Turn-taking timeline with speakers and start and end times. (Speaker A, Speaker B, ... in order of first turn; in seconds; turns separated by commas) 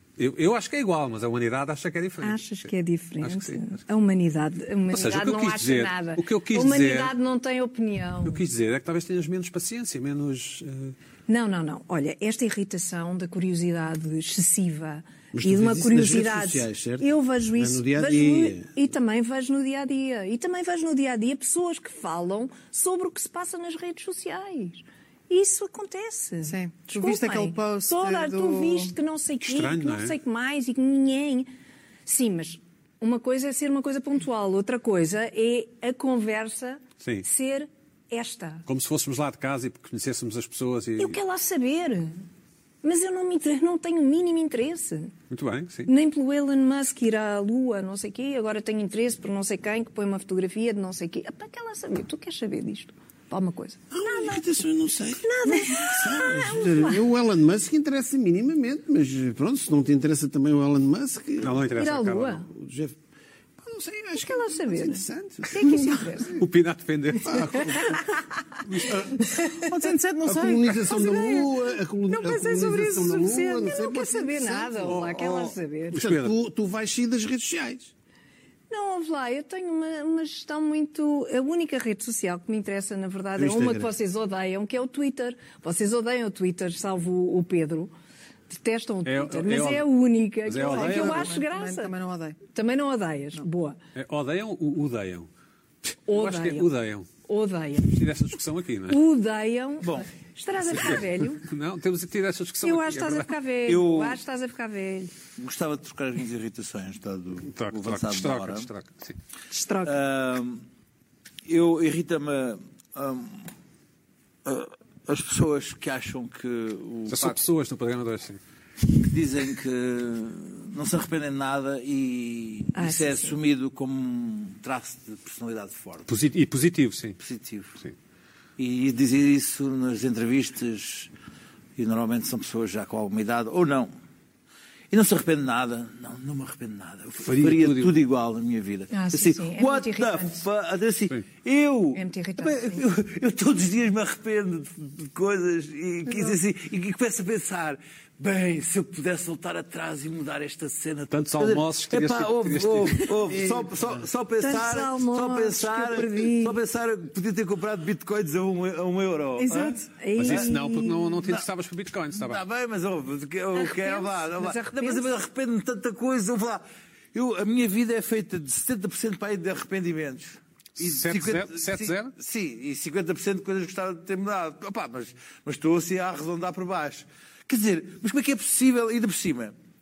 Speaker A: 0.2-2.7, Speaker B: 2.2-8.4, Speaker A: 3.2-3.7, Speaker A: 4.9-7.1, Speaker A: 8.2-10.9, Speaker B: 11.3-31.5, Speaker C: 15.3-18.7, Speaker D: 26.5-28.9, Speaker A: 29.4-30.1, Speaker B: 32.1-38.6, Speaker A: 38.7-41.2, Speaker B: 41.0-42.1, Speaker B: 42.8-45.1, Speaker A: 45.3-45.9, Speaker B: 45.9-54.5, Speaker C: 53.9-61.7, Speaker B: 55.2-57.1, Speaker A: 61.4-62.5, Speaker B: 61.8-62.5, Speaker C: 62.5-63.0, Speaker C: 63.6-66.3, Speaker B: 64.2-66.4, Speaker A: 66.4-67.8, Speaker C: 67.2-68.1, Speaker B: 67.7-68.1, Speaker A: 68.6-69.1, Speaker D: 69.5-71.5, Speaker C: 70.2-77.9, Speaker D: 72.2-73.5, Speaker B: 73.0-76.0, Speaker A: 75.9-76.3, Speaker B: 78.7-87.9, Speaker C: 83.4-83.9, Speaker B: 88.5-91.9, Speaker A: 89.0-89.9, Speaker A: 90.5-91.3, Speaker D: 90.6-92.4, Speaker B: 92.5-93.8, Speaker A: 94.0-95.3, Speaker B: 96.1-96.7, Speaker A: 96.1-97.1, Speaker B: 97.2-98.0, Speaker A: 97.9-99.0, Speaker B: 98.9-101.4, Speaker E: 99.8-100.1, Speaker A: 100.8-103.3, Speaker B: 102.6-105.1, Speaker E: 103.7-104.2, Speaker E: 105.4-108.7, Speaker A: 107.5-109.2, Speaker B: 109.5-109.9, Speaker E: 109.8-110.6, Speaker E: 111.5-113.5, Speaker E: 114.5-117.4, Speaker A: 117.1-118.4, Speaker E: 119.0-126.1, Speaker B: 122.8-123.4, Speaker A: 126.1-127.2, Speaker E: 127.2-127.8, Speaker E: 128.6-131.1, Speaker E: 131.8-133.9, Speaker E: 134.9-160.5, Speaker A: 137.2-137.9, Speaker B: 138.9-140.4, Speaker B: 141.9-142.8, Speaker A: 151.1-153.1, Speaker C: 153.3-153.7, Speaker B: 154.4-156.6, Speaker D: 159.4-159.9, Speaker B: 160.0-161.2, Speaker A: 160.2-162.4, Speaker E: 162.1-166.6, Speaker B: 163.6-165.1, Speaker E: 167.1-179.5, Speaker A: 170.8-172.1